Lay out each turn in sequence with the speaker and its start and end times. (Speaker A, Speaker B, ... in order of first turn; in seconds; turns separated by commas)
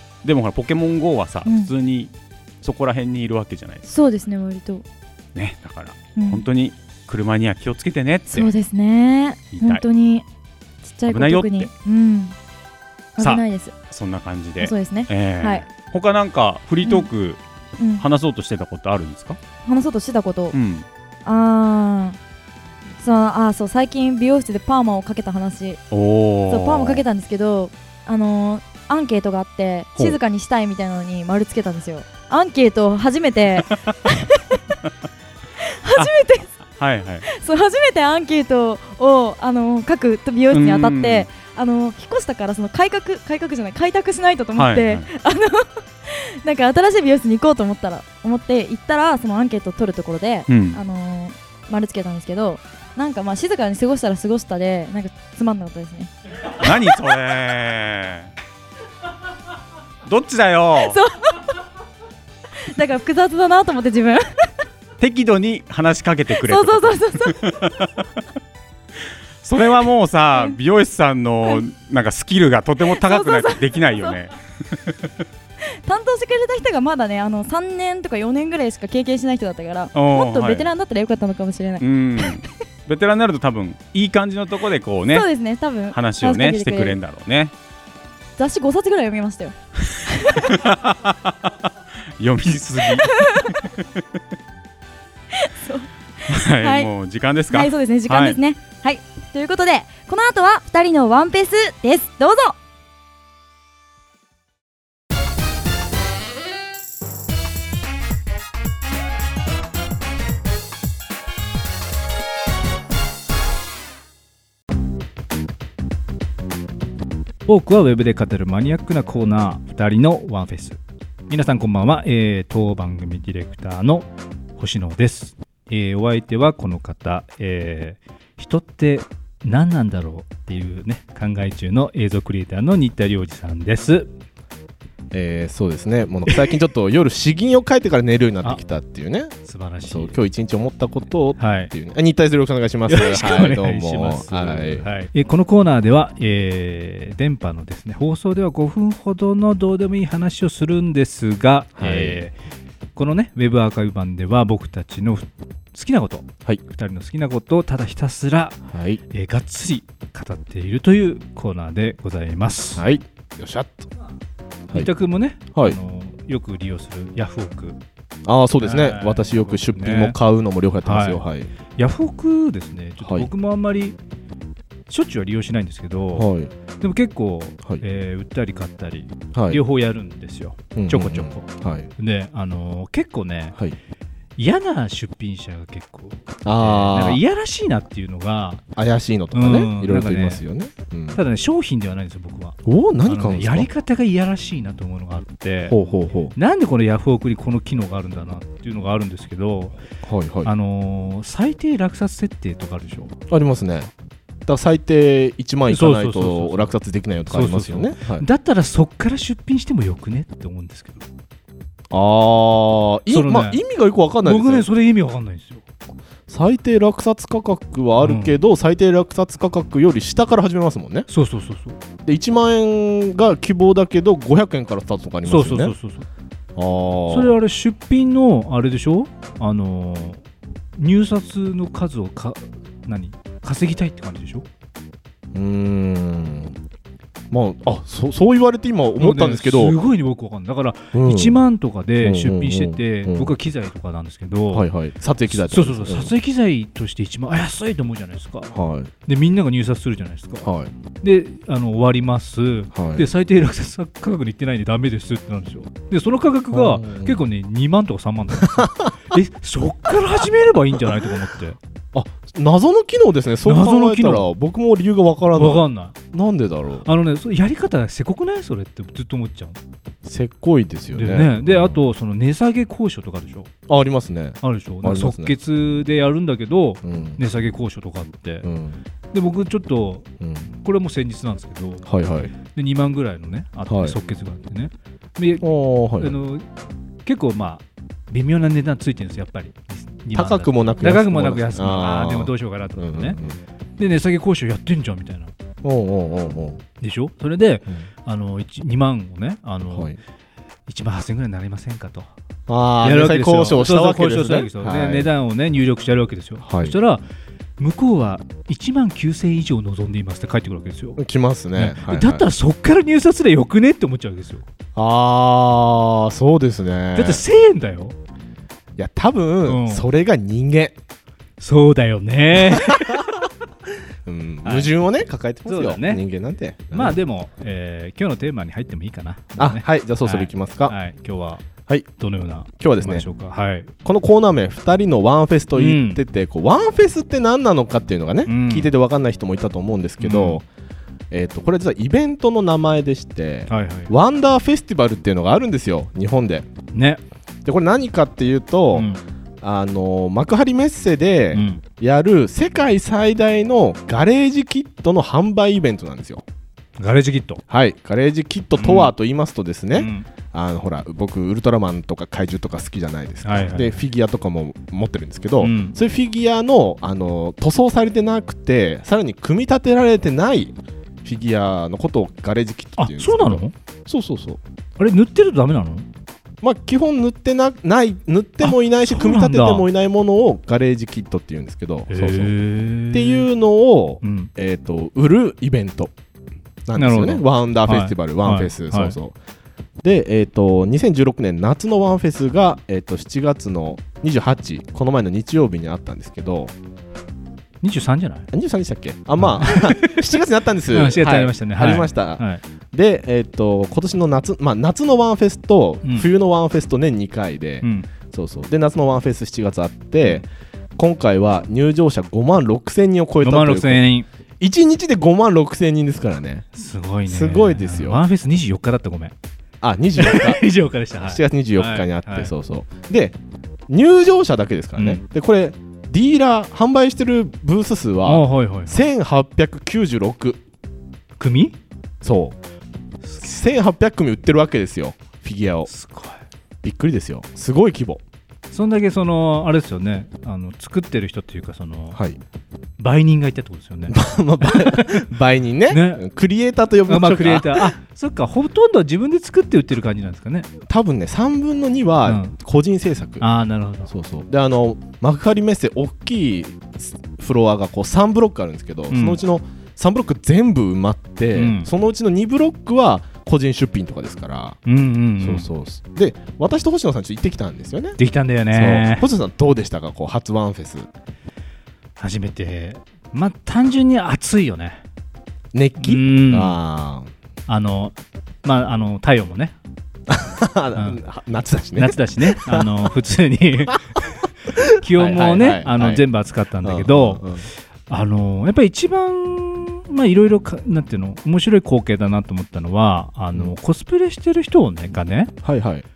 Speaker A: 0.2-3.9, Speaker B: 1.4-1.7, Speaker B: 3.9-4.8, Speaker A: 5.3-8.5, Speaker B: 6.2-6.4, Speaker B: 8.3-10.2, Speaker A: 9.5-9.8, Speaker B: 10.8-12.4, Speaker A: 11.1-11.7, Speaker B: 13.2-13.7, Speaker A: 13.2-17.4, Speaker B: 14.6-15.6, Speaker B: 16.8-17.1, Speaker B: 17.8-18.0, Speaker A: 18.0-19.4, Speaker B: 19.7-20.6, Speaker A: 20.5-20.9, Speaker B: 21.2-22.2, Speaker B: 23.0-25.8, Speaker A: 25.9-27.0, Speaker B: 26.5-34.4, Speaker B: 35.6-36.5, Speaker A: 36.7-37.2, Speaker B: 37.2-56.1, Speaker A: 40.5-41.3, Speaker A: 44.6-45.1, Speaker A: 50.5-50.8, Speaker A: 56.5-58.3, Speaker A: 60.1-61.0, Speaker B: 60.8-61.5, Speaker B: 62.6-64.2, Speaker A: 65.0-68.0, Speaker B: 66.4-67.4, Speaker A: 69.4-74.9, Speaker B: 72.8-74.2, Speaker B: 75.8-82.3, Speaker A: 79.9-80.7, Speaker A: 81.8-85.3, Speaker B: 85.1-87.0, Speaker A: 85.9-87.5, Speaker B: 88.4-90.6, Speaker A: 90.3-91.5, Speaker A: 92.2-93.8, Speaker B: 92.9-93.6, Speaker B: 95.3-96.9, Speaker A: 96.3-98.3, Speaker B: 97.5-102.6, Speaker C: 117.4-134.1, Speaker D: 135.1-144.8, Speaker C: 139.4-140.1, Speaker C: 141.4-141.7, Speaker C: 142.9-152.3, Speaker D: 151.8-152.2, Speaker C: 152.9-158.6, Speaker D: 158.7-159.0, Speaker C: 159.1-162.8, Speaker D: 162.7-163.9, Speaker C: 164.7-167.8, Speaker D: 168.3-171.5, Speaker C: 168.6-170.2, Speaker C: 170.8-171.2, Speaker C: 171.8-174.0, Speaker D: 173.0-173.3, Speaker C: 174.9-176.3, Speaker D: 176.1-176.5, Speaker C: 176.8-181.5, Speaker D: 179.3-179.6, Speaker D: 180.7-181.9, Speaker C: 182.0-183.6, Speaker C: 184.4-188.6, Speaker D: 186.4-187.2, Speaker D: 188.8-191.2, Speaker C: 189.3-190.4, Speaker C: 191.2-195.8, Speaker D: 192.7-193.7, Speaker D: 195.7-196.3, Speaker C: 196.3-199.8, Speaker D: 200.0-200.5, Speaker C: 200.4-203.2, Speaker D: 203.3-203.9, Speaker D: 204.4-208.3, Speaker C: 205.7-206.7, Speaker C: 207.3-211.1, Speaker D: 211.9-214.7, Speaker C: 213.1-213.6, Speaker C: 214.2-215.6, Speaker D: 216.3-221.1, Speaker C: 218.0-218.3, Speaker C: 221.1-221.8, Speaker D: 222.1-225.7, Speaker C: 225.3-226.1, Speaker D: 226.6-227.3, Speaker C: 227.1-230.2, Speaker C: 230.8-234.4, Speaker D: 235.3-236.6, Speaker D: 237.3-239.8, Speaker C: 239.0-244.7, Speaker D: 240.9-241.4, Speaker D: 242.0-243.3, Speaker D: 244.5-246.2, Speaker C: 245.3-248.5, Speaker D: 248.5-248.9, Speaker C: 249.1-250.4, Speaker D: 250.4-250.7, Speaker C: 251.0-261.6, Speaker D: 252.7-253.1, Speaker D: 256.5-257.2, Speaker D: 258.4-258.9, Speaker D: 261.9-266.9, Speaker C: 263.4-264.3, Speaker C: 265.4-265.9, Speaker C: 266.8-269.6, Speaker D: 270.0-271.8, Speaker C: 270.9-273.5, Speaker D: 273.7-275.3, Speaker C: 274.4-278.4, Speaker D: 276.8-277.2, Speaker D: 278.4-278.8, Speaker C: 279.1-280.1, Speaker D: 280.2-280.5, Speaker C: 280.6-281.8, Speaker D: 281.8-282.3, Speaker C: 282.4-285.4, Speaker D: 283.7-284.0, Speaker D: 285.4-286.2, Speaker C: 286.0-286.4, Speaker C: 287.1-293.2, Speaker D: 290.1-293.4, Speaker C: 293.8-295.3, Speaker D: 295.6-296.6, Speaker C: 296.8-299.9, Speaker D: 299.7-300.0, Speaker C: 300.7-302.1, Speaker D: 302.5-305.1, Speaker C: 302.8-307.0, Speaker D: 306.4-306.8, Speaker C: 307.6-311.0, Speaker D: 311.0-312.3, Speaker C: 311.6-314.4, Speaker D: 314.7-317.2, Speaker C: 316.9-317.9, Speaker D: 318.8-320.8, Speaker C: 319.5-319.8, Speaker C: 321.4-323.1, Speaker D: 322.3-323.1, Speaker D: 324.1-327.0, Speaker C: 324.4-324.7, Speaker C: 325.4-326.0, Speaker C: 326.7-331.4, Speaker D: 329.4-330.8, Speaker C: 332.0-333.7, Speaker D: 332.6-333.1, Speaker D: 333.8-340.4, Speaker C: 335.6-336.0, Speaker C: 338.3-338.7, Speaker C: 340.0-340.4, Speaker D: 341.1-346.5, Speaker C: 343.5-343.9, Speaker C: 346.7-347.0, Speaker D: 347.4-356.2, Speaker C: 348.7-349.0, Speaker C: 351.3-351.6, Speaker C: 356.8-357.4, Speaker D: 357.5-374.4, Speaker C: 358.6-358.9, Speaker C: 359.7-360.1, Speaker C: 363.2-363.8, Speaker C: 365.4-365.8, Speaker C: 372.8-373.5, Speaker C: 374.8-375.9, Speaker D: 376.4-382.3, Speaker C: 378.4-379.7, Speaker C: 381.9-383.2, Speaker D: 382.9-385.9, Speaker C: 384.0-384.3, Speaker D: 386.7-389.1, Speaker C: 386.8-388.9, Speaker D: 389.8-396.5, Speaker C: 397.6-398.3, Speaker D: 398.3-413.8, Speaker C: 399.2-400.1, Speaker C: 400.7-402.4, Speaker C: 407.6-407.9, Speaker C: 413.2-414.1, Speaker D: 414.4-416.5, Speaker C: 416.6-419.1, Speaker D: 417.1-418.0, Speaker D: 419.6-420.4, Speaker C: 420.0-422.3, Speaker D: 421.0-423.2, Speaker D: 423.7-430.4, Speaker C: 424.8-425.0, Speaker C: 428.1-428.8, Speaker C: 431.2-431.6, Speaker D: 432.0-432.4, Speaker D: 433.2-435.7, Speaker C: 435.7-436.2, Speaker D: 436.6-438.0, Speaker C: 438.5-442.0, Speaker D: 441.9-442.2, Speaker C: 442.8-445.1, Speaker D: 443.9-447.7, Speaker C: 445.7-446.0, Speaker C: 446.9-450.5, Speaker D: 450.7-453.3, Speaker C: 452.1-452.3, Speaker C: 453.2-453.9, Speaker D: 453.9-464.6, Speaker C: 458.9-459.2, Speaker C: 461.3-461.7, Speaker C: 464.7-465.5, Speaker D: 465.2-468.0, Speaker C: 468.0-469.1, Speaker D: 468.5-470.9, Speaker C: 472.0-474.8, Speaker D: 475.5-477.1, Speaker C: 475.8-476.6, Speaker C: 477.5-479.6, Speaker D: 480.1-482.9, Speaker C: 481.8-484.0, Speaker D: 484.5-486.0, Speaker C: 484.8-487.2, Speaker D: 486.6-487.5, Speaker C: 487.9-495.3, Speaker D: 495.4-495.8